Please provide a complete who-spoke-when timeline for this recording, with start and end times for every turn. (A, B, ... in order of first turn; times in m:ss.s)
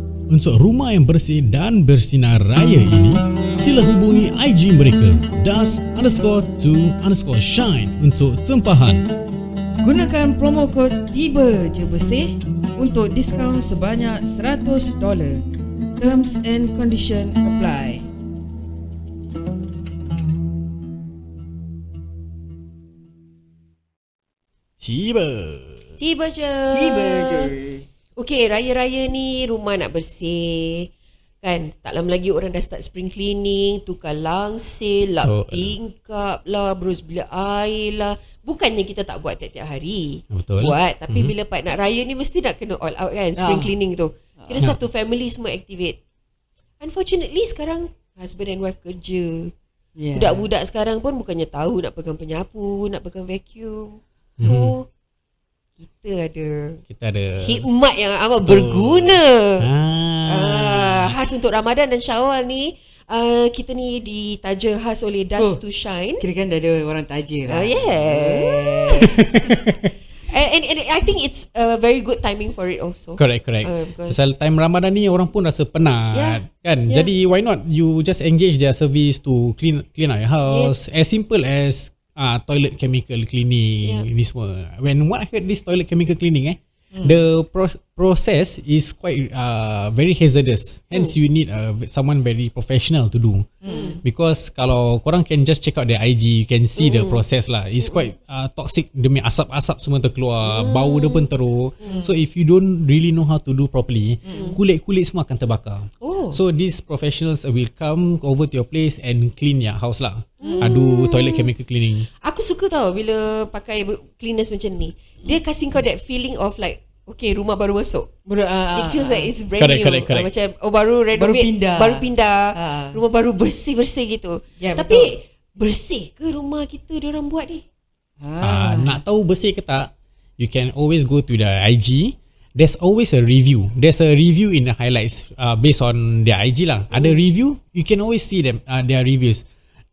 0:00.3-0:09.0 A
0:09.8-0:15.4 B
0:16.0-0:18.1 B
0:24.8-0:26.0 A
0:26.0-0:27.5 C
0:26.7-0:27.8 B
0:28.2-0:30.9 C
0:31.4-0:46.0 C
0:35.2-0:35.8 A
0:40.3-0:41.3 A
0:43.4-0:43.7 B
0:44.4-0:44.7 B
0:46.8-0:49.5 C
0:50.0-0:50.5 B
0:50.2-0:54.9 C
0:54.4-0:54.7 A
0:55.8-0:56.8 C
0:56.9-0:57.7 A
0:57.4-0:59.6 C
0:58.4-1:01.2 A
1:00.3-1:06.2 C
1:06.2-1:09.2 B
1:07.5-1:09.2 C
1:09.0-1:09.9 A
1:10.2-1:14.3 C
1:13.2-1:52.1 A
1:16.1-1:17.1 C
1:20.5-1:21.0 C
1:26.9-1:27.2 B
1:33.6-1:34.0 B
1:33.7-1:34.0 C
1:36.8-1:37.2 C
1:40.4-1:42.0 C
1:41.8-1:42.1 B
1:44.2-1:44.6 B
1:44.3-1:44.6 C
1:46.0-1:46.4 C
1:50.4-1:51.5 C
1:50.4-1:50.7 B
1:52.2-1:58.1 C
1:58.3-1:59.3 B
1:58.7-2:07.6 C
1:59.6-2:00.3 A
2:01.2-2:03.0 B
2:04.6-2:05.1 B
2:08.2-2:09.0 B
2:08.4-2:19.4 A